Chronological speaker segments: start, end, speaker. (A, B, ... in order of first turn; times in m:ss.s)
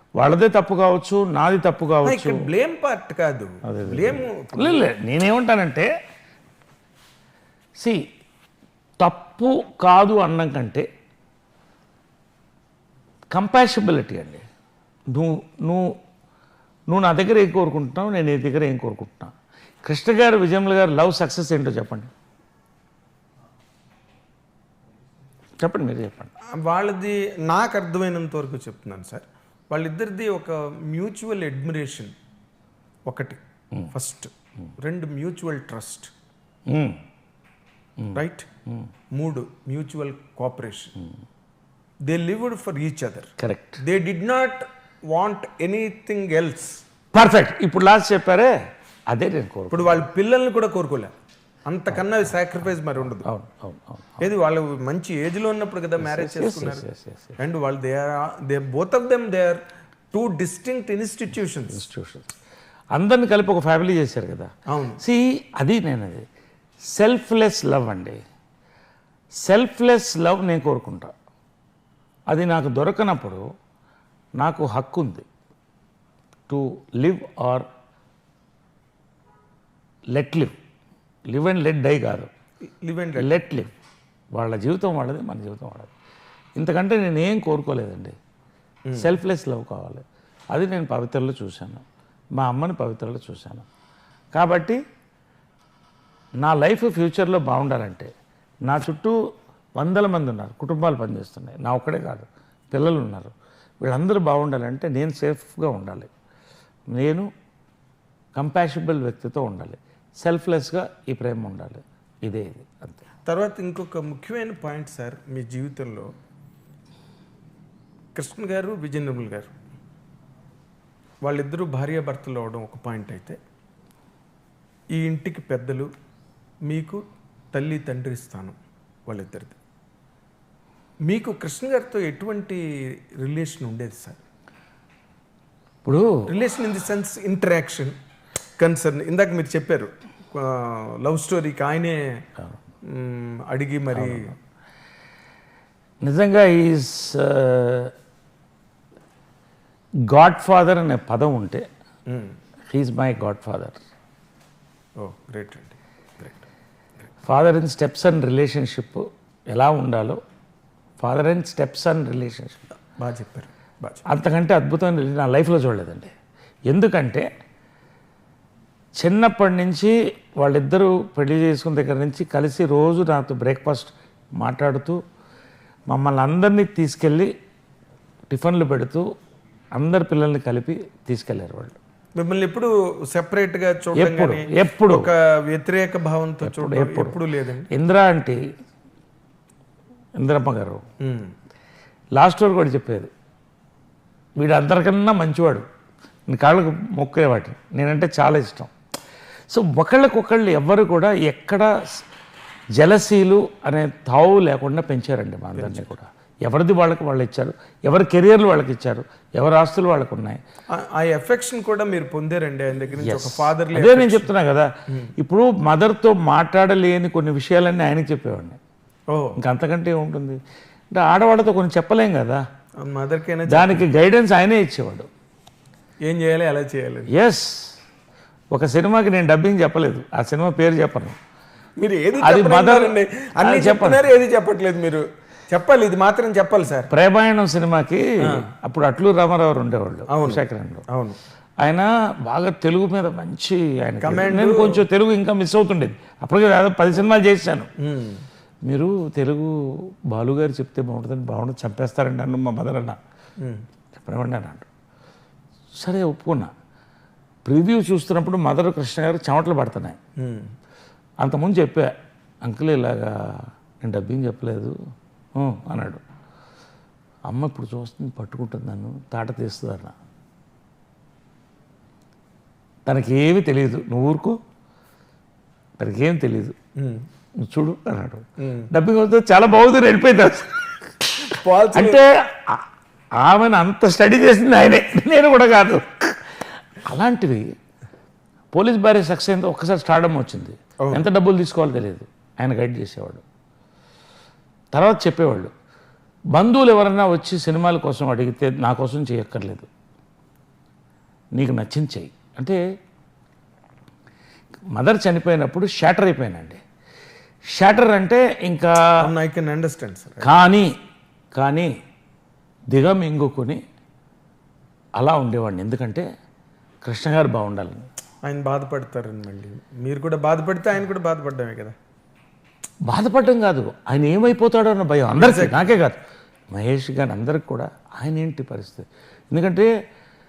0:00.2-0:02.4 A
0:02.0-0:04.9 B
0:03.6-0:05.9 A
0:09.0-0:10.8 A
0:13.3-0:14.4 A
0:15.1-0:15.9 A
0:16.9-0:22.1 A
0:25.6-0:26.3 A
0:26.5-0:32.1 B
0:33.1-0:33.4 B
0:33.9-0:36.1 B
0:36.7-0:37.0 A
0:38.1-0:38.5 B
0:39.1-0:41.0 B
0:42.1-0:46.8 B
0:43.4-0:43.8 A
0:47.1-0:48.5 A
0:49.1-0:50.0 A
0:49.7-0:51.1 B
0:51.7-0:53.2 B
0:51.9-0:52.2 A
0:53.2-0:54.3 A
0:54.2-0:56.8 B
0:56.0-0:57.4 A
0:57.4-1:01.8 B
1:01.7-1:02.3 A
1:02.9-1:06.2 A
1:04.7-1:05.0 B
1:06.9-1:08.2 A
1:09.4-1:11.1 A
1:12.3-1:13.4 A
1:14.4-1:15.2 A
1:16.5-1:17.6 A
1:20.1-1:20.5 A
1:21.3-1:22.3 A
1:22.8-1:23.4 B
1:23.2-1:23.7 A
1:24.3-1:25.9 A
1:26.6-1:28.2 A
1:29.0-1:31.8 A
1:32.4-1:33.7 A
1:34.3-1:34.8 A
1:36.4-1:38.1 A
1:38.6-1:39.2 A
1:39.8-1:46.1 A
1:46.9-1:47.3 A
1:48.3-1:53.0 A
1:53.2-1:56.1 B
1:58.1-1:59.5 B
2:01.2-2:03.4 B
2:04.9-2:05.9 B
2:06.7-2:07.0 B
2:07.5-2:08.5 B
2:09.1-2:09.6 B
2:11.1-2:12.6 B
2:13.2-2:14.2 B
2:15.8-2:16.1 A
2:16.3-2:17.9 B
2:18.6-2:22.2 B
2:22.9-2:24.3 B
2:23.9-2:24.3 A
2:26.0-2:27.9 A
2:30.1-2:31.6 A
2:32.1-2:32.3 B
2:32.7-2:33.8 A
2:35.0-2:36.4 B
2:37.2-2:40.2 A
2:41.0-2:42.6 A
2:43.0-2:44.0 B
2:44.0-2:46.1 A
2:46.7-2:47.3 A
2:49.0-2:55.0 A
2:55.9-2:57.3 A
2:58.3-2:59.0 A
2:59.7-3:01.8 A
3:02.2-3:07.7 B
3:03.9-3:05.0 A
3:06.4-3:07.2 A
3:07.7-3:08.4 A
3:10.2-3:10.8 A
3:11.0-3:11.3 B
3:12.1-3:13.1 A
3:14.4-3:15.6 A
3:16.3-3:18.7 A
3:19.5-3:22.0 A
3:22.8-3:30.4 A
3:25.6-3:25.9 B
3:30.7-3:34.3 B
3:33.0-3:38.6 A
3:39.1-3:39.4 B
3:39.4-3:40.4 A
3:40.9-3:42.4 A
3:42.8-3:43.9 B
3:43.5-3:45.1 A
3:46.0-3:47.1 B
3:47.1-3:47.8 A
3:48.5-3:51.2 A
3:51.8-3:56.9 B
3:52.2-3:54.0 A
3:56.9-4:00.8 A
4:00.1-4:01.2 B
4:01.6-4:07.7 A
4:04.0-4:04.8 B
4:07.8-4:08.2 B
4:08.6-4:13.0 A
4:13.9-4:14.7 A
4:15.8-4:16.5 A
4:17.4-4:20.0 A
4:20.2-4:20.5 B
4:21.2-4:21.9 A
4:22.4-4:24.7 A
4:25.4-4:26.0 A
4:27.3-4:29.9 A
4:32.8-4:34.4 A
4:35.8-4:36.5 A
4:36.8-4:37.0 B
4:37.4-4:42.6 A
4:38.4-4:38.7 B
4:41.3-4:42.0 B
4:43.2-4:47.5 A
4:48.5-4:53.2 A
4:54.7-4:55.5 A
4:56.3-4:59.7 A
5:01.3-5:02.6 A
5:04.7-5:06.6 A
5:07.5-5:08.9 A
5:09.0-5:10.6 B
5:10.2-5:10.7 A
5:11.3-5:11.7 A
5:12.7-5:13.6 A
5:15.0-5:16.0 A
5:16.8-5:17.9 A
5:18.2-5:21.7 B
5:22.8-5:26.0 A
5:25.1-5:25.8 B
5:26.5-5:29.7 A